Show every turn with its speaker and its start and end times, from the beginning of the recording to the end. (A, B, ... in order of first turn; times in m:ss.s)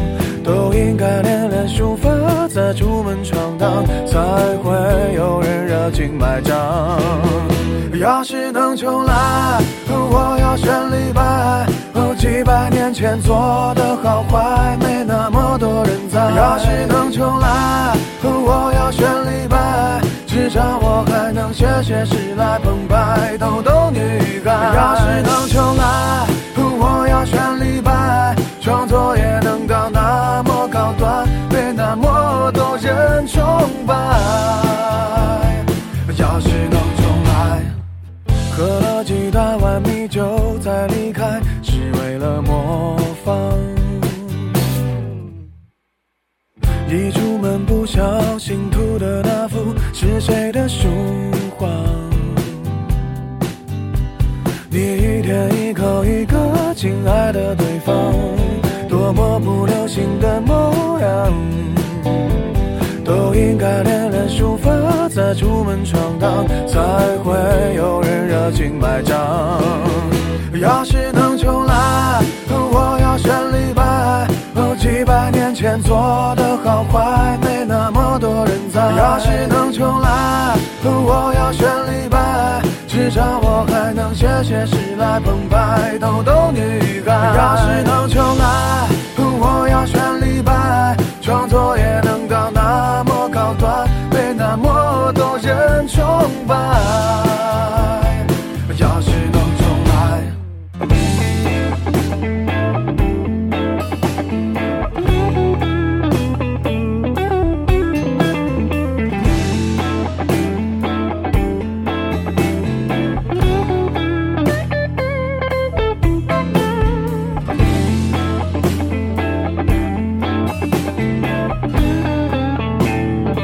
0:00.4-0:37.8 A
0:38.5-0:44.5 A
0:46.8-0:52.7 A
0:54.7-1:02.4 A
1:03.0-1:40.4 A